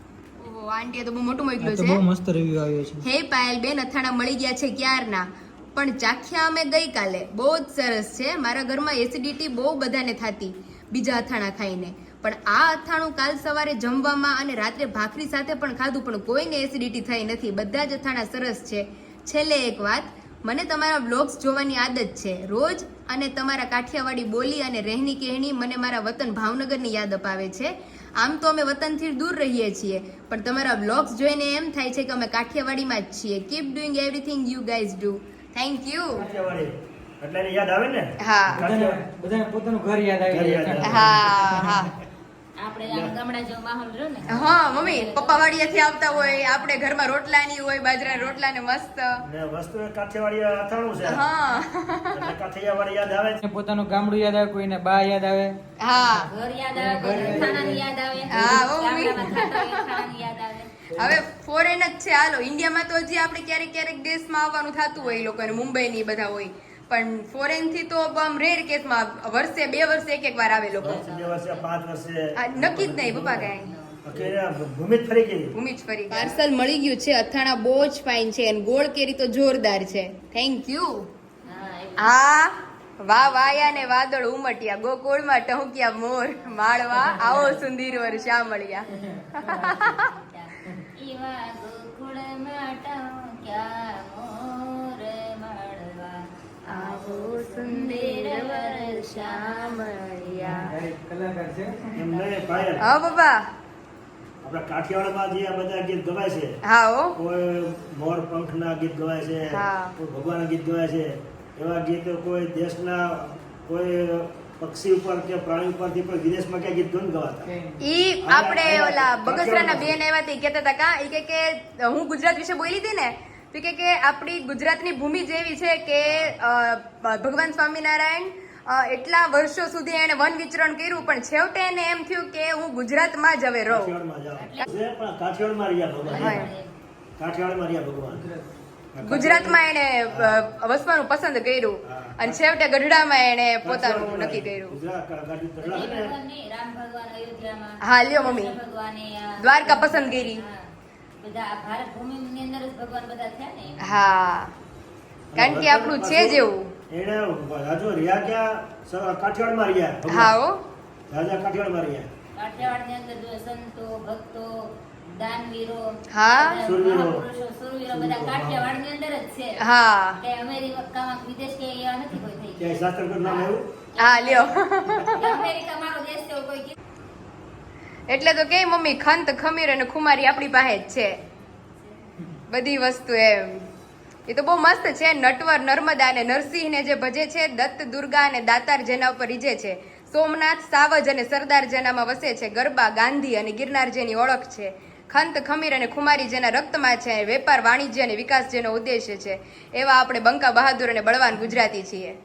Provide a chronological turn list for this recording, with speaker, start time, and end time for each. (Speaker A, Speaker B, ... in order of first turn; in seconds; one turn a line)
Speaker A: 0.4-2.0
Speaker B: 1.6-3.0
Speaker A: 3.0-36.2
Speaker C: 36.1-39.0
Speaker A: 38.2-38.7
Speaker B: 38.5-41.8
Speaker C: 40.3-41.3
Speaker A: 40.8-41.9
Speaker D: 42.6-46.9
Speaker C: 42.8-43.2
Speaker A: 44.3-49.2
Speaker D: 48.0-48.4
Speaker C: 49.2-51.2
Speaker A: 51.0-52.2
Speaker C: 52.1-53.4
Speaker B: 53.4-55.5
Speaker A: 55.8-56.3
Speaker D: 56.2-60.7
Speaker B: 56.7-58.7
Speaker A: 58.3-59.9
Speaker B: 60.9-61.2
Speaker A: 61.0-71.0
Speaker D: 65.0-65.3
Speaker D: 70.7-71.7
Speaker C: 70.8-73.5
Speaker A: 72.3-73.7
Speaker D: 72.8-74.0
Speaker C: 74.0-75.5
Speaker A: 75.5-81.1
Speaker D: 81.4-82.1
Speaker A: 82.0-88.8
Speaker D: 83.1-83.9
Speaker D: 86.5-100.7
Speaker A: 89.6-89.9
Speaker A: 96.7-100.7
Speaker B: 100.4-101.7
Speaker C: 101.9-102.8
Speaker D: 101.9-103.2
Speaker A: 102.8-103.4
Speaker C: 104.4-106.5
Speaker A: 106.6-107.2
Speaker C: 107.1-117.5
Speaker A: 109.5-109.9
Speaker B: 117.4-117.8
Speaker A: 117.8-133.9
Speaker C: 118.2-120.0
Speaker C: 126.0-126.3
Speaker C: 133.7-136.5
Speaker D: 134.4-134.7
Speaker D: 136.0-136.7
Speaker A: 136.1-136.5
Speaker C: 137.2-138.2
Speaker B: 138.1-138.5
Speaker C: 138.9-140.4
Speaker A: 139.0-144.8
Speaker C: 141.8-142.4
Speaker C: 143.6-146.1
Speaker D: 145.6-154.0
Speaker A: 147.8-148.5
Speaker A: 149.4-150.4
Speaker A: 153.8-154.5
Speaker C: 155.3-160.3
Speaker A: 155.3-156.7
Speaker A: 160.1-160.7
Speaker C: 161.1-162.1
Speaker D: 162.3-169.6
Speaker A: 166.1-166.6
Speaker C: 166.6-167.2
Speaker C: 167.9-168.8
Speaker A: 169.6-170.2
Speaker D: 170.2-176.7
Speaker C: 172.6-173.6
Speaker A: 174.0-175.4
Speaker A: 178.1-181.2
Speaker D: 181.7-182.0
Speaker A: 182.5-183.7
Speaker A: 184.3-202.2